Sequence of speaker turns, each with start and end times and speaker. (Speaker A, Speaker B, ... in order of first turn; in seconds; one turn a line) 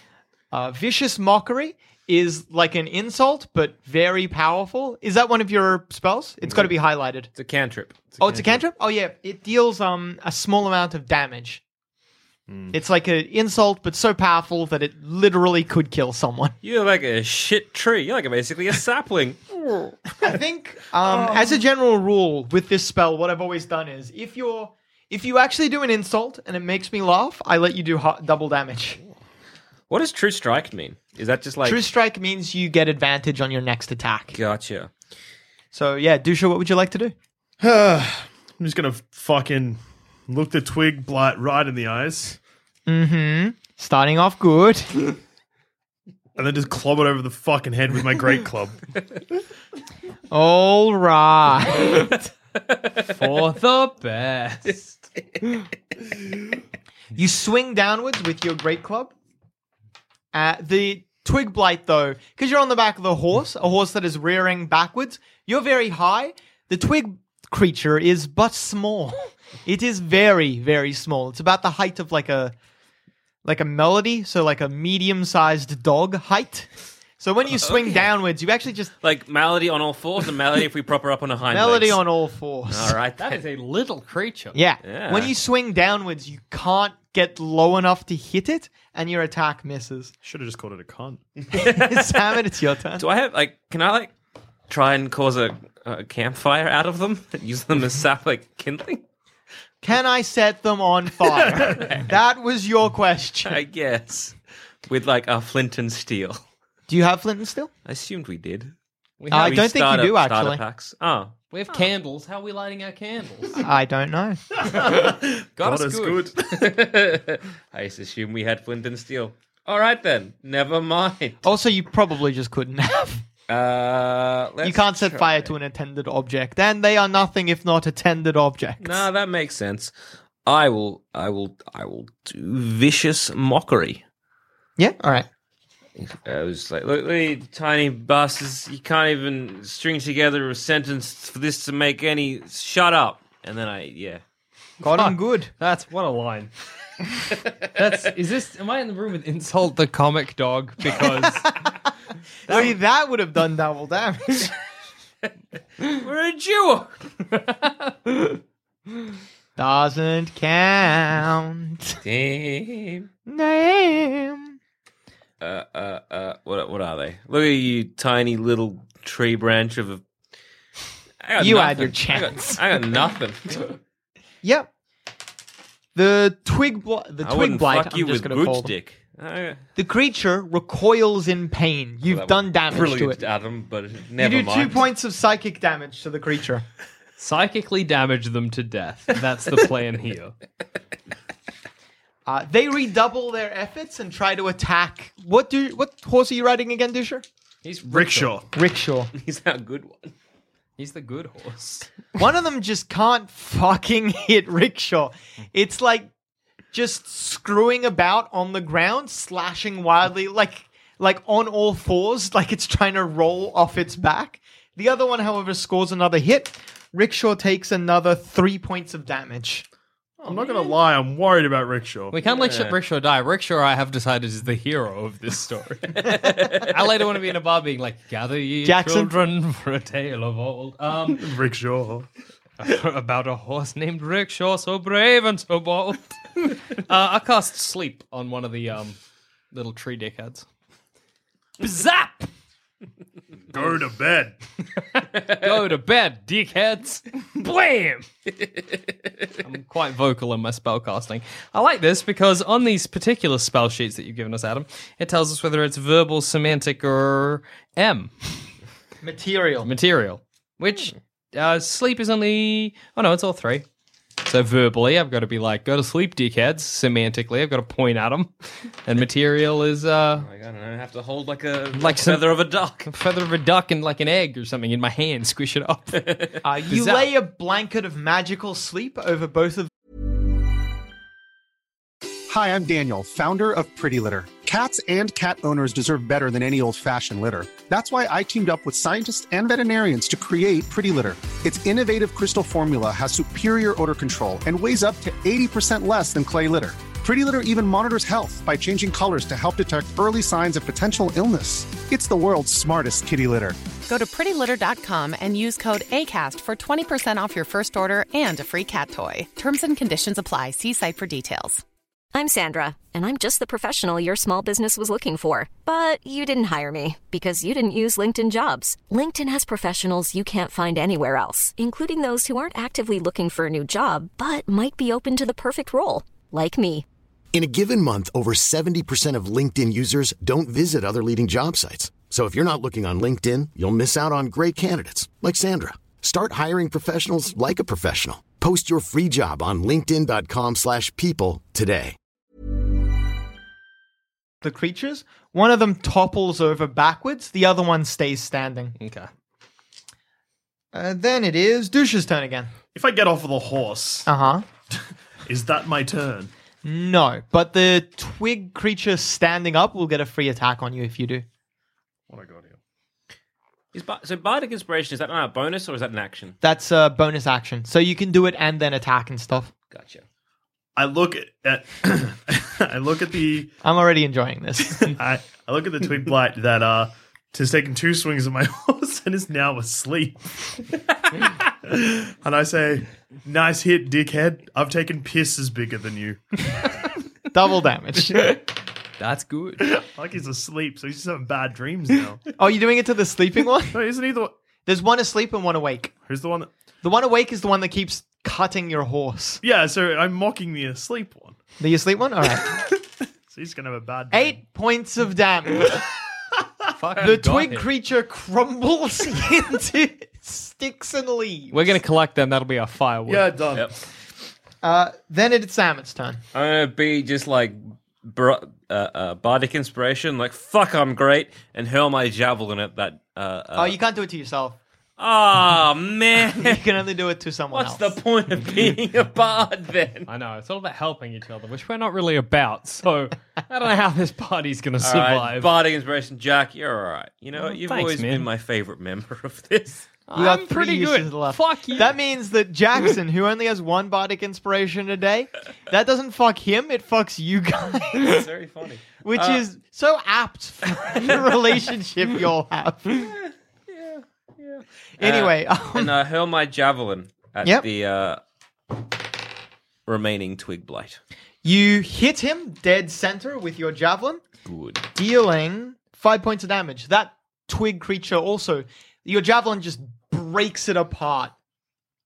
Speaker A: 0.5-7.3
Speaker B: 7.4-8.1
Speaker C: 8.2-8.6
Speaker A: 8.2-11.6
Speaker C: 12.5-12.8
Speaker A: 12.7-16.6
Speaker B: 16.6-19.9
Speaker A: 20.2-29.0
Speaker B: 21.1-21.4
Speaker B: 29.9-31.8
Speaker A: 31.6-34.4
Speaker B: 34.3-34.9
Speaker A: 35.7-37.1
Speaker C: 37.6-42.4
Speaker A: 42.9-45.2
Speaker C: 46.4-48.8
Speaker A: 50.3-52.3
Speaker D: 53.0-54.9
Speaker A: 57.1-59.1
Speaker A: 60.3-72.5
Speaker A: 73.5-78.9
Speaker B: 77.6-78.1
Speaker B: 79.0-82.0
Speaker A: 81.5-83.0
Speaker B: 82.7-83.4
Speaker D: 83.2-84.6
Speaker A: 84.5-90.1
Speaker B: 84.8-85.3
Speaker C: 90.2-91.2
Speaker A: 91.5-93.0
Speaker B: 91.5-92.2
Speaker B: 93.0-94.1
Speaker B: 94.7-99.0
Speaker A: 99.8-103.6
Speaker B: 101.7-102.0
Speaker B: 103.5-106.4
Speaker A: 106.9-107.7
Speaker B: 107.9-108.7
Speaker D: 109.2-109.7
Speaker A: 109.3-110.6
Speaker B: 109.3-111.8
Speaker D: 111.5-113.6
Speaker A: 113.6-114.5
Speaker C: 114.6-116.5
Speaker D: 115.6-116.3
Speaker B: 116.5-121.4
Speaker A: 121.4-123.2
Speaker B: 123.5-125.5
Speaker A: 124.6-129.1
Speaker B: 128.8-129.9
Speaker B: 130.5-134.0
Speaker A: 134.8-135.3
Speaker B: 136.0-144.2
Speaker A: 144.8-145.5
Speaker D: 144.9-146.5
Speaker D: 147.8-151.5
Speaker A: 152.5-154.5
Speaker B: 155.8-157.4
Speaker A: 159.6-162.0
Speaker B: 162.0-163.1
Speaker A: 163.3-164.5
Speaker B: 165.4-170.0
Speaker B: 171.2-173.8
Speaker A: 171.4-172.6
Speaker A: 174.4-174.7
Speaker A: 175.9-178.7
Speaker B: 177.2-179.6
Speaker A: 179.8-183.2
Speaker B: 182.1-184.8
Speaker A: 184.2-186.7
Speaker D: 187.2-190.3
Speaker A: 192.3-197.2
Speaker D: 197.6-198.4
Speaker C: 197.9-198.5
Speaker A: 198.5-199.1
Speaker B: 199.1-200.1
Speaker D: 200.8-201.9
Speaker A: 202.2-206.1
Speaker A: 206.7-219.7
Speaker C: 220.2-222.2
Speaker D: 222.1-231.3
Speaker B: 222.2-222.8
Speaker A: 228.6-229.1
Speaker C: 231.1-232.1
Speaker D: 232.6-239.0
Speaker D: 239.5-240.5
Speaker D: 241.6-242.3
Speaker C: 243.5-244.4
Speaker D: 244.8-248.1
Speaker D: 249.4-258.5
Speaker A: 259.0-259.7
Speaker D: 259.6-263.7
Speaker D: 264.2-268.3
Speaker D: 268.9-270.3
Speaker B: 270.2-272.9
Speaker D: 271.8-272.3
Speaker D: 272.9-276.2
Speaker A: 276.4-279.7
Speaker D: 276.7-277.1
Speaker E: 282.3-303.6
Speaker F: 303.9-311.6
Speaker G: 312.1-326.9
Speaker H: 327.3-342.0
Speaker A: 344.4-348.8
Speaker D: 348.8-349.1
Speaker A: 350.7-352.5
Speaker C: 352.7-354.1
Speaker A: 354.1-354.4
Speaker C: 354.7-356.3
Speaker A: 356.6-361.2
Speaker C: 362.1-362.6
Speaker B: 363.7-366.4
Speaker A: 366.4-369.5
Speaker B: 369.7-370.0
Speaker C: 370.8-373.5
Speaker A: 373.6-374.9
Speaker C: 374.8-380.6
Speaker C: 381.6-386.2
Speaker A: 387.3-388.4
Speaker D: 389.0-389.8
Speaker C: 389.9-392.2
Speaker A: 392.4-393.9
Speaker C: 393.7-394.3
Speaker A: 394.7-396.0
Speaker C: 396.0-396.5
Speaker A: 396.8-399.4
Speaker C: 399.4-401.4
Speaker A: 401.6-402.7
Speaker C: 403.3-404.4
Speaker A: 404.1-405.8
Speaker D: 406.7-407.7
Speaker A: 407.0-411.7
Speaker D: 411.5-413.3
Speaker C: 413.1-413.7
Speaker A: 414.6-416.2
Speaker B: 416.3-423.8
Speaker A: 423.6-424.6
Speaker B: 425.0-426.6
Speaker A: 426.3-427.9
Speaker B: 427.5-430.1
Speaker D: 430.1-435.5
Speaker B: 434.8-439.9
Speaker D: 437.4-438.3
Speaker D: 440.1-441.9
Speaker A: 440.1-448.3
Speaker B: 448.0-449.4
Speaker A: 449.0-453.1
Speaker B: 453.0-458.2
Speaker A: 455.0-455.9
Speaker B: 459.9-461.0
Speaker A: 461.4-464.2
Speaker B: 464.4-464.8
Speaker A: 464.9-471.3